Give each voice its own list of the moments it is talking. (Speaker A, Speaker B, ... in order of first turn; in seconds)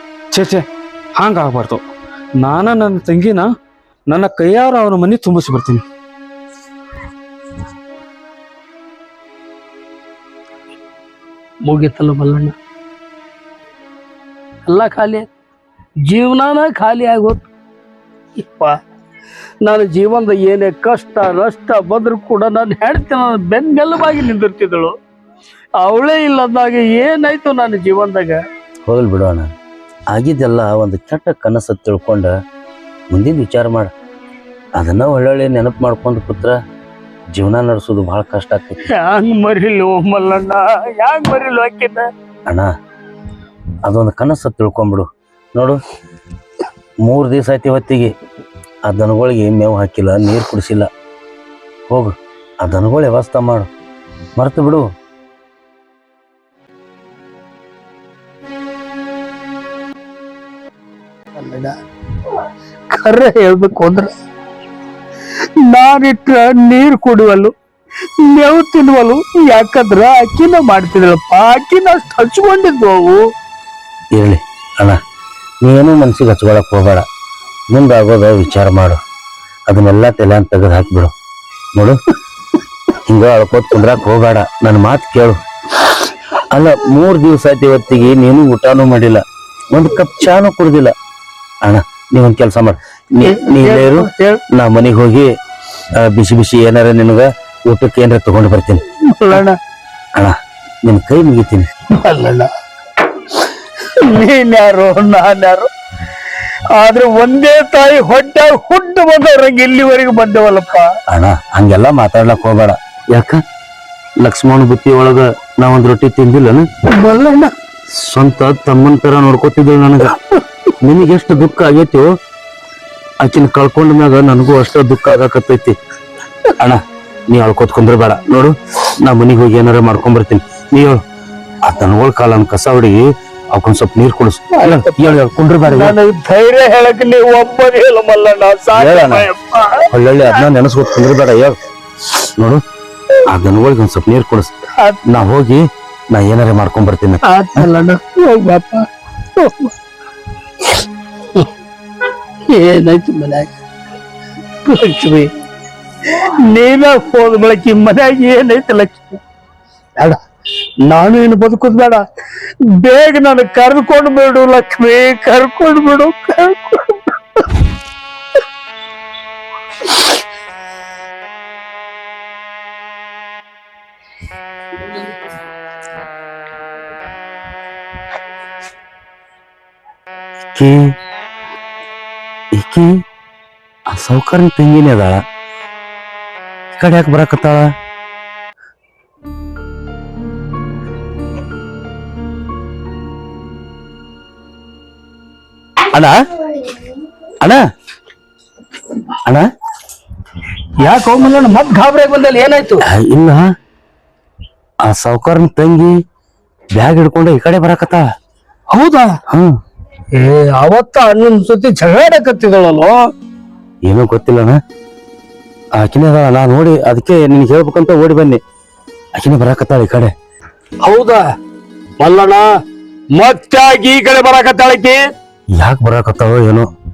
Speaker A: 0.3-0.6, 1.2-1.8, 2.4-3.5, 4.1-5.8
Speaker B: 11.6-12.5, 14.7-15.3, 16.1-17.4, 18.4-18.8, 19.6-24.9, 25.8-28.4, 38.9-42.1, 61.3-61.7, 62.9-64.1, 65.6-67.5, 68.2-73.2, 93.2-94.4, 99.1-99.6, 102.0-102.5, 104.0-105.7, 106.7-110.9, 116.9-117.5, 134.6-135.1, 135.7-139.8, 147.2-149.7, 152.5-153.5, 154.6-155.3, 156.1-159.2, 160.9-162.0, 162.7-167.6, 200.8-202.8, 208.7-209.2, 210.1-213.0, 220.8-221.2, 222.0-222.5, 223.2-225.0
Speaker C: 28.9-29.5, 30.1-32.3, 33.1-33.9, 34.8-36.5, 37.3-38.8, 43.8-45.8, 47.0-48.1, 48.9-50.9, 51.9-53.7, 54.4-54.9, 74.1-75.0, 75.6-77.0, 77.7-79.0, 79.7-81.1, 83.1-85.4, 86.5-89.2, 89.7-90.9, 91.6-95.3, 96.0-98.8, 100.8-101.7, 111.1-113.4, 114.2-116.6, 117.9-120.2, 120.8-122.0, 123.2-125.8, 126.6-131.0, 131.6-135.9, 138.7-139.3, 139.9-141.6, 142.2-142.6, 143.2-144.5, 145.1-147.7, 180.5-180.9, 182.5-182.9, 183.9-185.1, 186.7-187.7, 202.8-203.4, 204.8-205.9, 206.8-208.0, 213.8-214.6, 215.8-218.4, 219.2-220.1, 225.6-226.7